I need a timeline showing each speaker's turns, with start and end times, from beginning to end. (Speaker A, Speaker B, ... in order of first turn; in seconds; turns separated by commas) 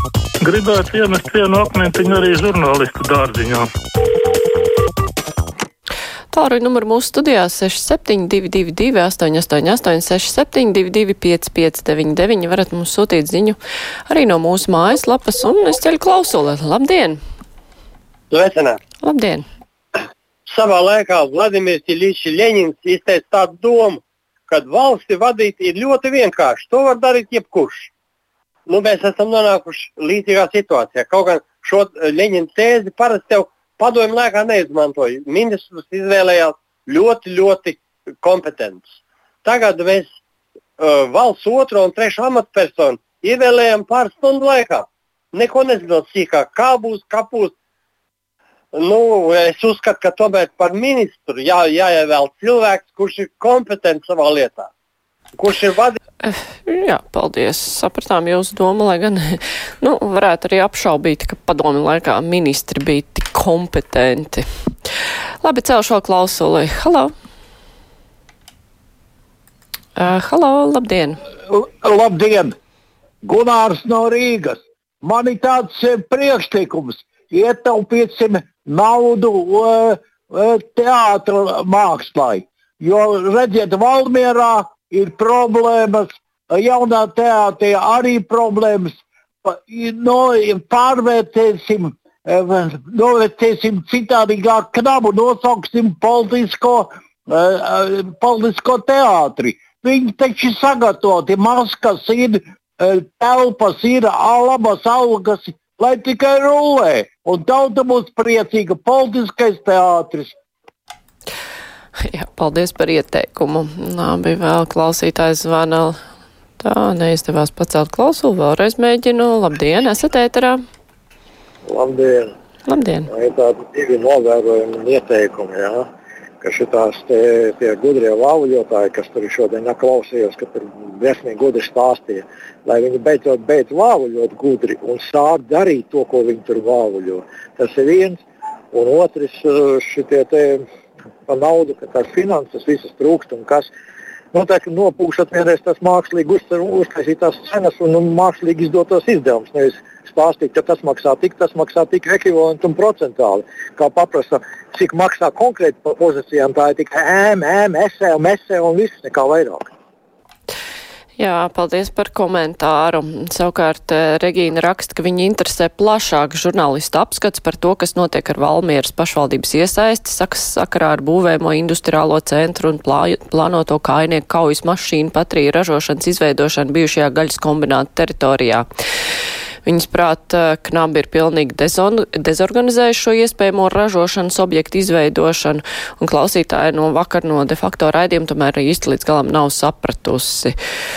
Speaker A: 0.4-3.7, Speaker B: 6.3-17.2, Speaker C: 18.3-18.8, Speaker B: 19.0-19.4, Speaker C: 20.5-27.9, Speaker C: 28.7-38.9, Speaker C: 39.4-40.1, Speaker C: 40.8-47.5, Speaker C: 48.7-54.7, Speaker C: 55.3-56.0, Speaker B: 56.2-64.4, Speaker B: 65.4-67.1, Speaker B: 70.0-71.2, Speaker D: 71.5-72.5, Speaker D: 73.2-110.3, Speaker B: 112.1-116.0, Speaker B: 116.6-120.6, Speaker E: 121.6-122.3, Speaker B: 122.7-123.1, Speaker E: 123.1-125.9, Speaker E: 126.4-140.6, Speaker E: 141.3-143.7, Speaker E: 144.3-159.7, Speaker B: 161.2-178.7, Speaker B: 179.6-190.5